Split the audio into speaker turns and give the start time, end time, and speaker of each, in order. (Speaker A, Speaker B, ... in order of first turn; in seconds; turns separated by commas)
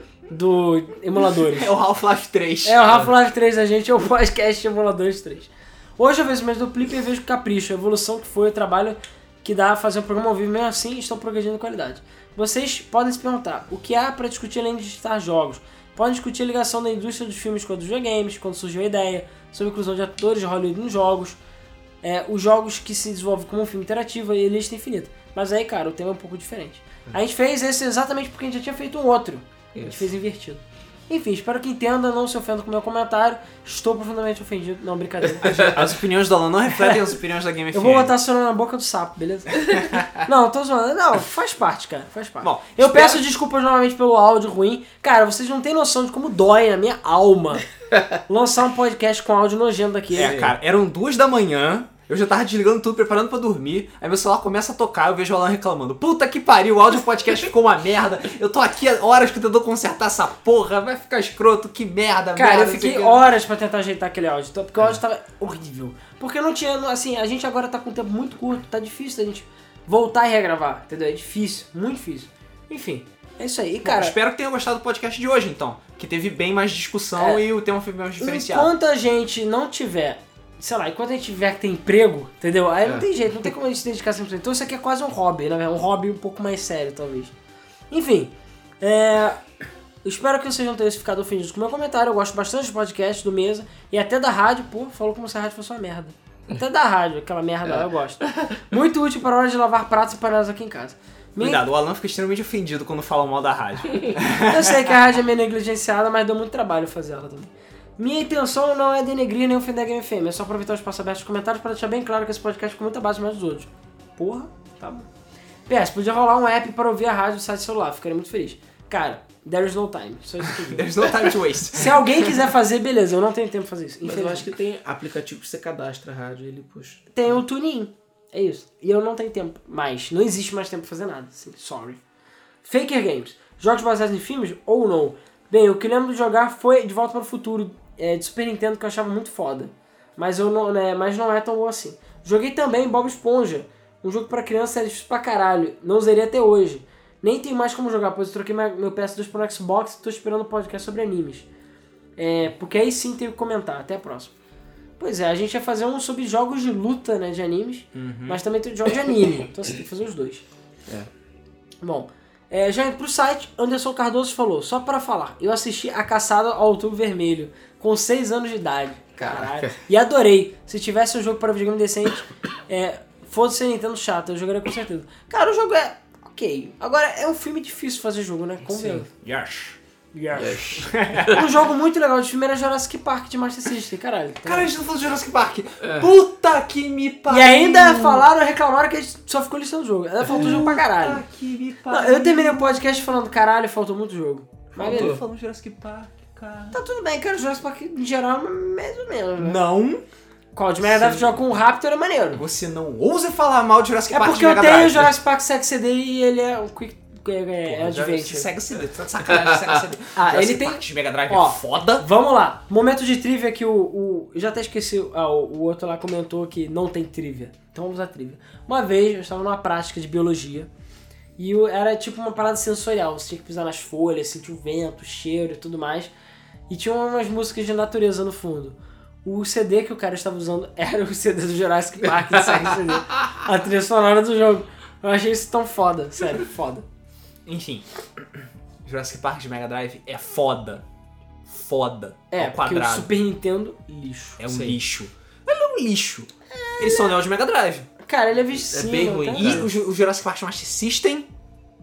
Speaker A: 0.3-1.7, Speaker B: 1.4-2.8, Speaker A: 2.6-21.4, Speaker C: 2.9-3.1, Speaker A: 22.0-35.8, Speaker C: 29.7-30.1, Speaker B: 35.4-38.1, Speaker A: 37.7-47.6, Speaker B: 39.7-40.2, Speaker B: 42.4-43.2, Speaker C: 47.9-48.2, Speaker A: 48.3-50.4, Speaker B: 50.1-63.2, Speaker C: 50.2-50.5, Speaker A: 62.4-74.2, Speaker B: 73.8-78.7, Speaker A: 77.2-77.4, Speaker A: 78.2-87.3, Speaker A: 87.9-89.4, Speaker A: 90.0-101.6, Speaker C: 97.7-98.6, Speaker B: 101.4-104.9, Speaker A: 104.4-115.1, Speaker A: 115.7-124.5, Speaker B: 120.7-122.3, Speaker C: 124.0-127.0, Speaker A: 127.1-132.0, Speaker A: 132.6-151.5, Speaker A: 152.2-154.3, Speaker A: 155.0-160.4, Speaker B: 157.9-158.4, Speaker A: 161.8-179.1, Speaker C: 169.2-169.7, Speaker C: 178.6-179.0, Speaker B: 179.2-179.8, Speaker A: 180.1-180.7, Speaker C: 180.3-181.5, Speaker B: 180.7-181.5, Speaker A: 181.3-184.7, Speaker B: 184.4-188.2, Speaker C: 185.8-186.1, Speaker A: 187.3-191.2, Speaker C: 190.2-190.5, Speaker B: 190.2-193.0, Speaker A: 191.9-195.2, Speaker B: 194.7-196.8, Speaker C: 194.8-195.2, Speaker A: 196.7-199.6, Speaker B: 199.4-200.0, Speaker A: 200.5-202.4, Speaker B: 202.3-205.1, Speaker A: 204.1-208.5, Speaker B: 207.6-212.1, Speaker C: 209.3-209.6, Speaker A: 210.1-220.7, Speaker A: 221.4-226.1, Speaker A: 226.7-236.8, Speaker C: 232.0-232.7, Speaker B: 237.4-237.8, Speaker B: 238.8-240.8, Speaker B: 241.5-243.1, Speaker A: 242.3-244.4, Speaker B: 244.4-247.9, Speaker C: 244.5-244.8, Speaker A: 246.5-247.2, Speaker A: 248.0-249.7, Speaker C: 248.7-249.7, Speaker B: 249.4-251.3